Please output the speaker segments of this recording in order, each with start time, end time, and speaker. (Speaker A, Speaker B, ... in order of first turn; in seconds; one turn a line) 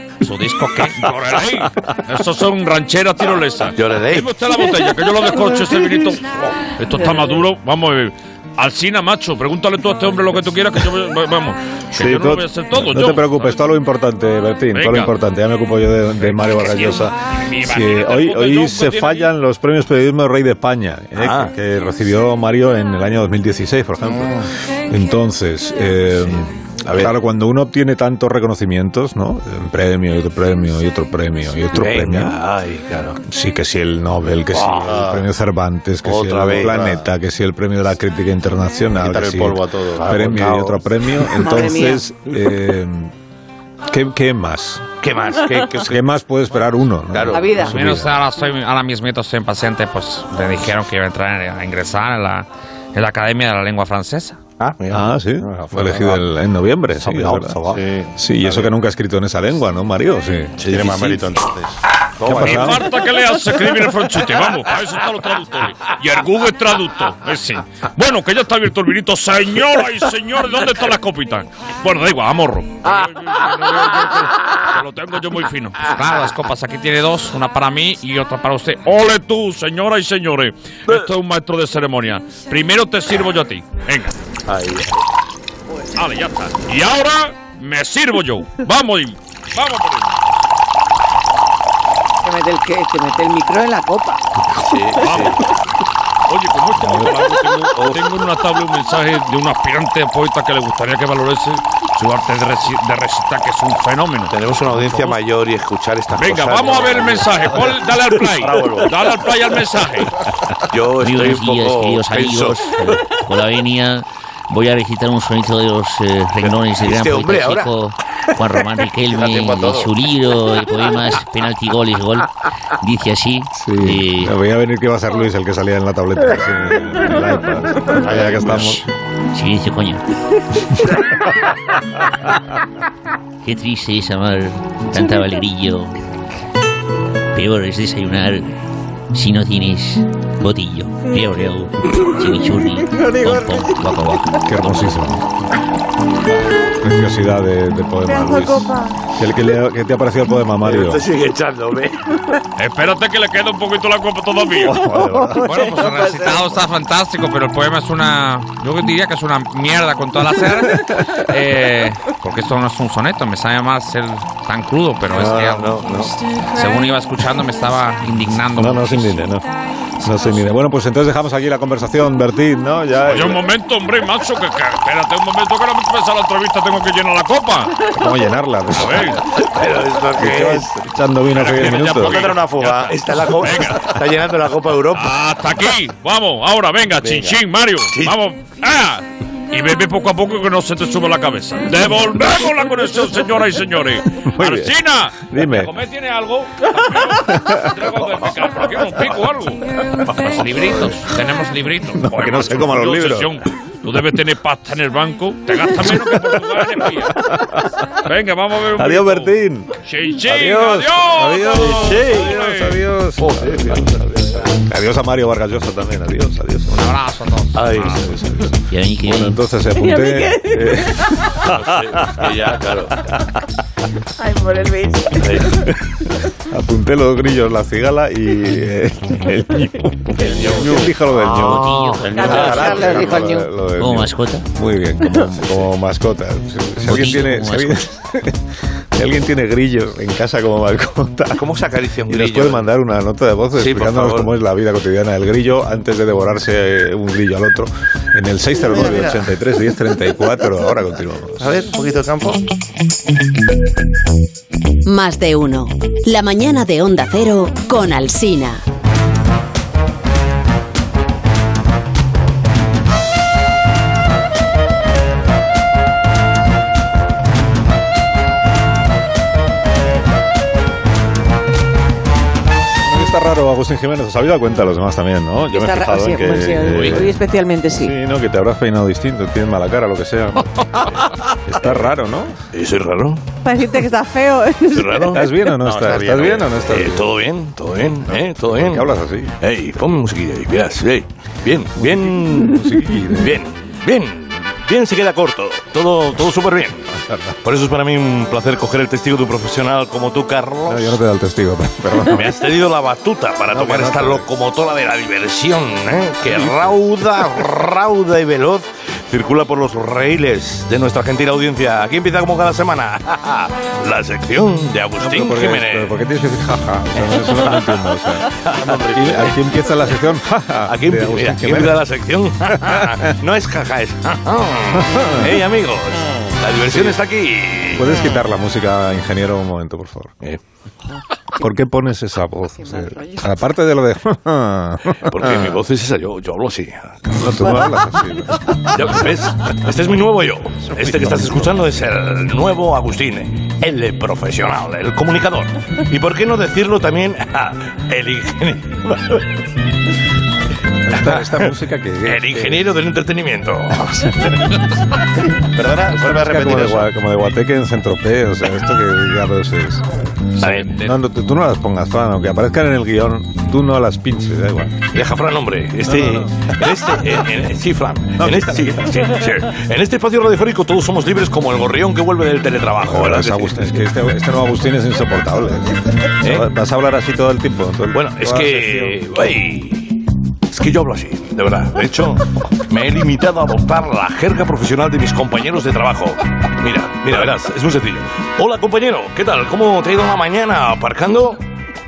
Speaker A: 0.2-13.6
Speaker B: 3.7-4.3
Speaker C: 11.9-32.4
Speaker A: 14.7-15.1
Speaker A: 16.2-19.3
Speaker B: 21.2-21.5
Speaker B: 26.9-27.1
Speaker B: 31.7-33.2
Speaker C: 33.2-43.1
Speaker B: 34.5-35.0
Speaker D: 34.8-35.2
Speaker B: 36.0-37.0
Speaker D: 39.0-40.4
Speaker B: 40.1-40.8
Speaker E: 41.4-42.0
Speaker C: 43.9-44.9
Speaker B: 45.0-46.0
Speaker C: 45.8-48.1
Speaker B: 47.1-47.5
Speaker E: 47.3-47.7
Speaker F: 47.6-54.4
Speaker B: 54.6-56.2
Speaker C: 54.9-60.6
Speaker B: 57.0-57.8
Speaker D: 57.7-58.7
Speaker B: 60.6-61.2
Speaker D: 60.6-61.8
Speaker B: 62.2-62.7
Speaker C: 62.2-62.8
Speaker A: 62.3-75.8
Speaker F: 75.8-78.8
Speaker A: 78.8-84.1
Speaker B: 84.5-85.0
Speaker A: 86.0-90.2
Speaker E: 92.2-94.2
Speaker B: 94.6-95.4
Speaker A: 95.0-95.4
Speaker A: 96.3-104.3
Speaker B: 97.7-98.0
Speaker B: 104.3-108.9
Speaker A: 106.1-110.1
Speaker B: 110.7-112.9
Speaker G: 111.0-124.3
Speaker B: 116.4-117.7
Speaker D: 119.0-119.9
Speaker C: 123.5-128.8
Speaker D: 128.0-128.8
Speaker G: 129.3-130.0
Speaker G: 133.4-135.9
Speaker G: 137.3-138.5
Speaker G: 139.1-144.9
Speaker E: 142.9-143.7
Speaker C: 144.4-145.3
Speaker C: 146.8-151.0
Speaker E: 148.0-149.0
Speaker B: 150.6-152.0
Speaker A: 152.6-154.9
Speaker C: 154.6-155.4
Speaker B: 154.9-155.2
Speaker F: 155.3-165.8
Speaker E: 155.4-156.4
Speaker C: 165.1-165.6
Speaker B: 165.3-166.1
Speaker F: 166.5-169.3
Speaker C: 168.5-169.5
Speaker C: 170.0-173.4
Speaker A: 173.1-177.8
Speaker C: 177.9-179.2
Speaker A: 178.7-179.2
Speaker B: 179.3-180.7
Speaker C: 180.1-182.3
Speaker A: 181.3-183.9
Speaker B: 181.4-182.0
Speaker D: 182.0-182.9
Speaker B: 182.8-185.1
Speaker A: 184.9-199.6
Speaker C: 194.2-195.7
Speaker C: 197.3-197.7
Speaker F: 200.2-202.0
Speaker A: 200.4-207.1
Speaker C: 201.9-203.4
Speaker C: 205.8-206.3
Speaker C: 207.1-207.6
Speaker A: 208.0-212.8
Speaker C: 208.7-216.9
Speaker B: 211.6-212.3
Speaker B: 213.2-214.5
Speaker F: 216.7-218.0
Speaker B: 217.6-218.0
Speaker C: 217.8-222.5
Speaker G: 218.7-219.4
Speaker E: 219.7-220.8
Speaker B: 221.4-223.0
Speaker E: 224.2-225.4
Speaker B: 225.2-225.7
Speaker C: 226.4-238.4
Speaker B: 230.3-230.6
Speaker D: 231.2-233.3
Speaker G: 231.3-232.2
Speaker E: 232.1-233.5
Speaker G: 233.8-234.5
Speaker G: 236.8-237.8
Speaker C: 238.9-241.5
Speaker B: 241.3-242.7
Speaker C: 242.1-251.6
Speaker B: 243.6-244.3
Speaker D: 248.6-249.2
Speaker D: 251.4-252.4
Speaker H: 254.8-258.6
Speaker C: 272.8-277.2
Speaker E: 275.5-277.9
Speaker B: 276.6-277.1
Speaker C: 277.7-282.4
Speaker B: 282.5-283.2
Speaker E: 283.4-285.2
Speaker B: 284.7-285.3
Speaker C: 285.1-287.1
Speaker D: 285.5-286.6
Speaker B: 286.2-288.9
Speaker C: 288.4-289.3
Speaker B: 289.4-296.9
Speaker C: 291.8-293.4
Speaker C: 296.9-297.4
Speaker B: 297.4-301.0
Speaker C: 300.7-302.4
Speaker B: 302.1-315.9
Speaker C: 303.5-304.2
Speaker C: 306.3-306.8
Speaker C: 315.0-318.3
Speaker B: 318.4-318.6
Speaker D: 318.6-319.2
Speaker C: 318.9-321.8
Speaker B: 320.7-328.0
Speaker C: 322.5-323.0
Speaker C: 324.9-325.3
Speaker C: 326.7-327.0
Speaker C: 327.7-330.1
Speaker C: 331.4-335.6
Speaker E: 332.6-333.3
Speaker B: 335.0-336.9
Speaker C: 337.1-338.9
Speaker B: 338.7-349.2
Speaker C: 340.8-341.4
Speaker C: 350.8-352.6
Speaker B: 351.0-351.4
Speaker B: 352.0-354.1
Speaker C: 353.9-354.3
Speaker D: 355.4-356.9
Speaker C: 355.9-359.9
Speaker B: 360.4-360.7
Speaker F: 360.4-360.9
Speaker C: 360.4-364.8
Speaker B: 364.9-373.7
Speaker C: 365.8-366.5
Speaker C: 368.2-368.9
Speaker C: 372.8-379.0
Speaker B: 377.9-380.0
Speaker B: 380.5-391.4